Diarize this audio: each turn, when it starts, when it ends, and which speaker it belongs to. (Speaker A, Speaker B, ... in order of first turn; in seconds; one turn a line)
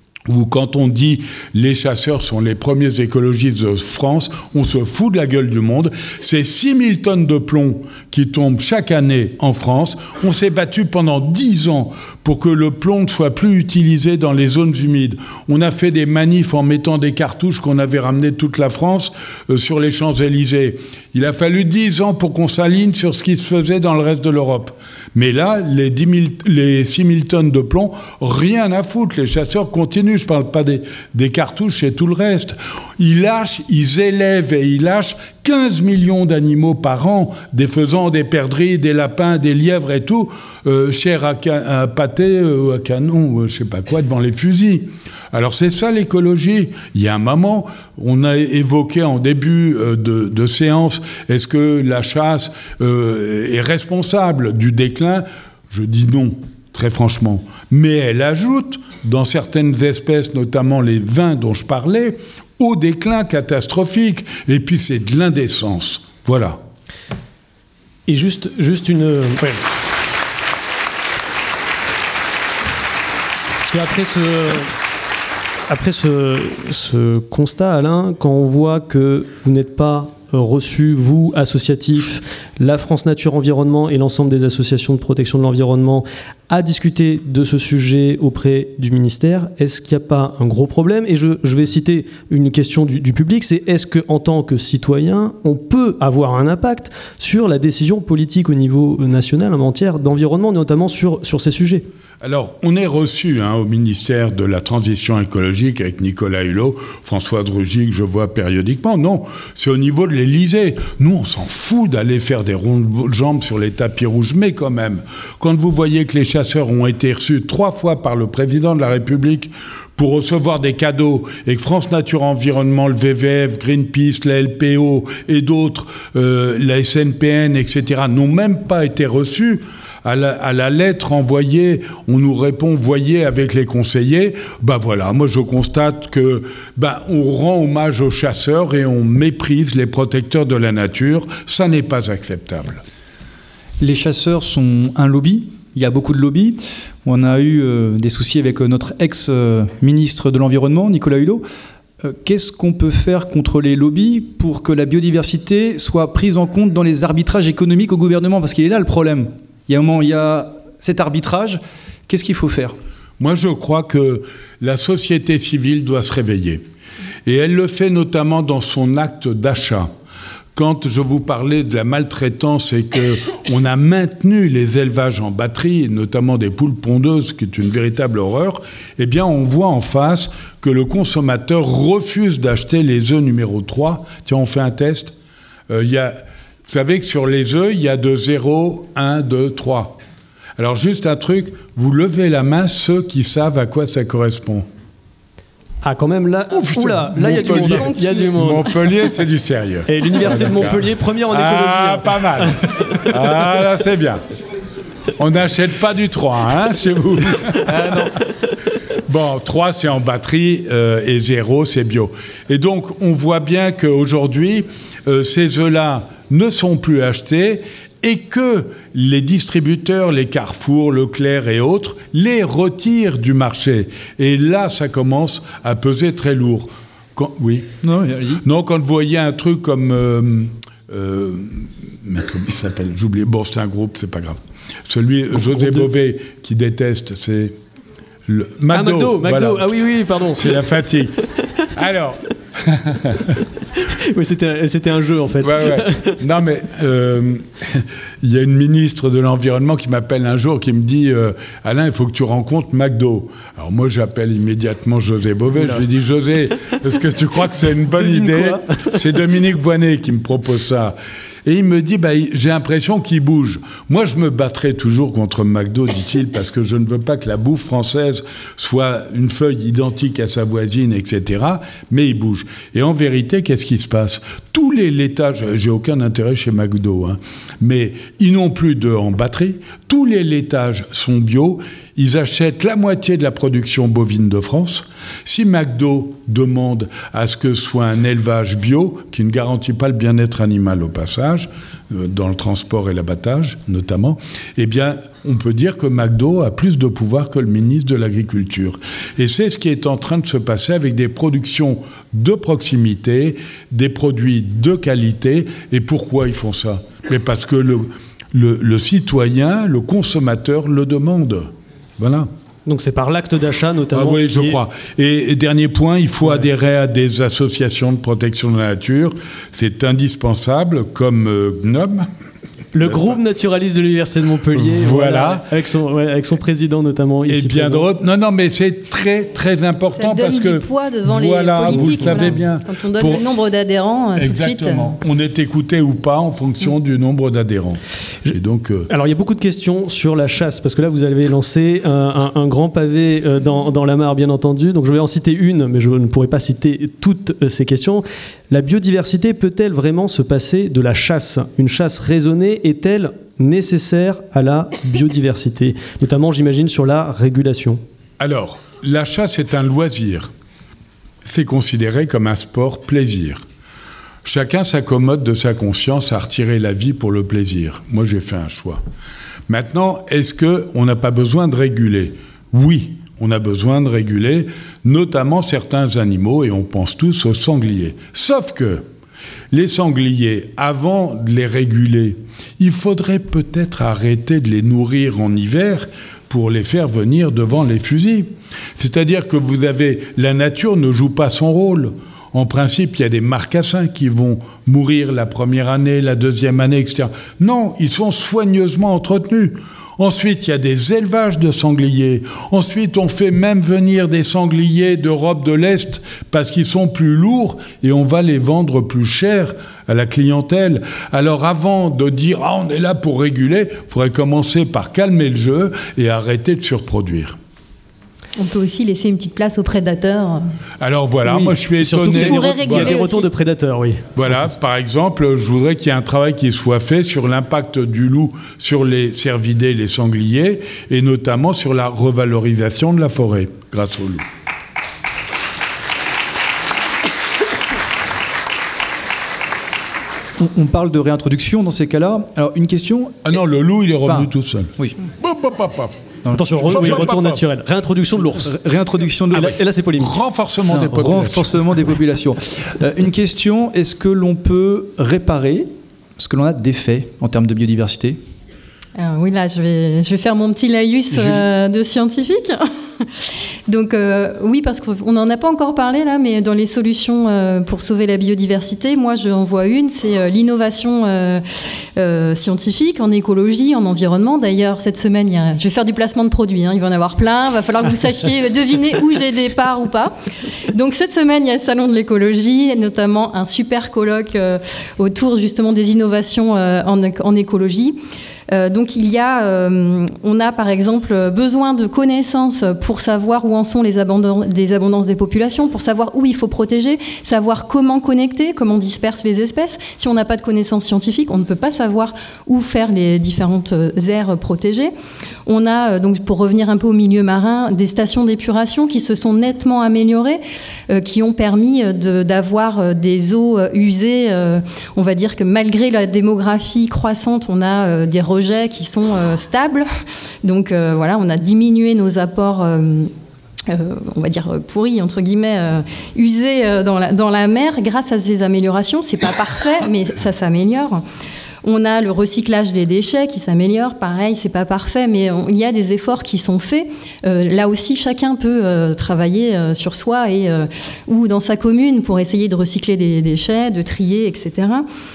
Speaker A: 0.3-66.6
Speaker B: 68.1-69.6
Speaker B: 73.6-74.7
Speaker B: 75.7-101.8
Speaker A: 102.2-142.8
Speaker C: 143.8-151.4
Speaker C: 152.0-162.8
Speaker A: 163.2-166.6
Speaker A: 167.2-169.9
Speaker A: 170.6-185.2
Speaker A: 185.7-190.0
Speaker A: 190.6-194.7
Speaker B: 195.8-198.8
Speaker A: 196.5-204.2
Speaker D: 197.7-198.3
Speaker B: 199.9-203.6
Speaker A: 205.2-208.0
Speaker C: 207.7-208.1
Speaker A: 209.0-227.7
Speaker C: 227.8-228.4
Speaker A: 228.4-237.6
Speaker B: 235.5-235.9
Speaker A: 238.3-239.7
Speaker B: 238.7-240.8
Speaker A: 240.3-243.4
Speaker B: 243.8-246.2
Speaker A: 245.4-312.3
Speaker B: 255.6-255.8
Speaker B: 258.0-258.9
Speaker B: 312.7-314.6
Speaker A: 313.9-322.1
Speaker B: 316.2-316.5
Speaker B: 322.7-327.9
Speaker A: 322.8-323.1
Speaker A: 324.5-325.5
Speaker A: 327.3-333.2
Speaker D: 330.0-334.9
Speaker B: 331.7-332.3
Speaker A: 334.2-338.9
Speaker B: 338.9-357.8
Speaker A: 358.2-360.3
Speaker A: 361.2-363.4
Speaker A: 364.2-368.8
Speaker A: 369.5-378.8
Speaker A: 379.5-417.4
Speaker D: 418.4-420.5
Speaker A: 420.8-423.0
Speaker B: 421.2-424.5
Speaker D: 422.1-423.3
Speaker A: 424.2-434.2
Speaker C: 440.4-443.4
Speaker A: 443.2-445.9
Speaker C: 444.0-445.0
Speaker C: 446.2-447.1
Speaker B: 446.3-448.5
Speaker A: 446.6-447.4
Speaker C: 448.3-449.6
Speaker B: 449.3-450.2
Speaker A: 450.0-451.6
Speaker C: 450.7-458.2
Speaker D: 459.0-471.4
Speaker D: 472.0-480.1
Speaker D: 480.7-504.9
Speaker D: 505.5-519.9
Speaker D: 520.4-523.1
Speaker D: 523.7-531.0
Speaker D: 531.6-544.9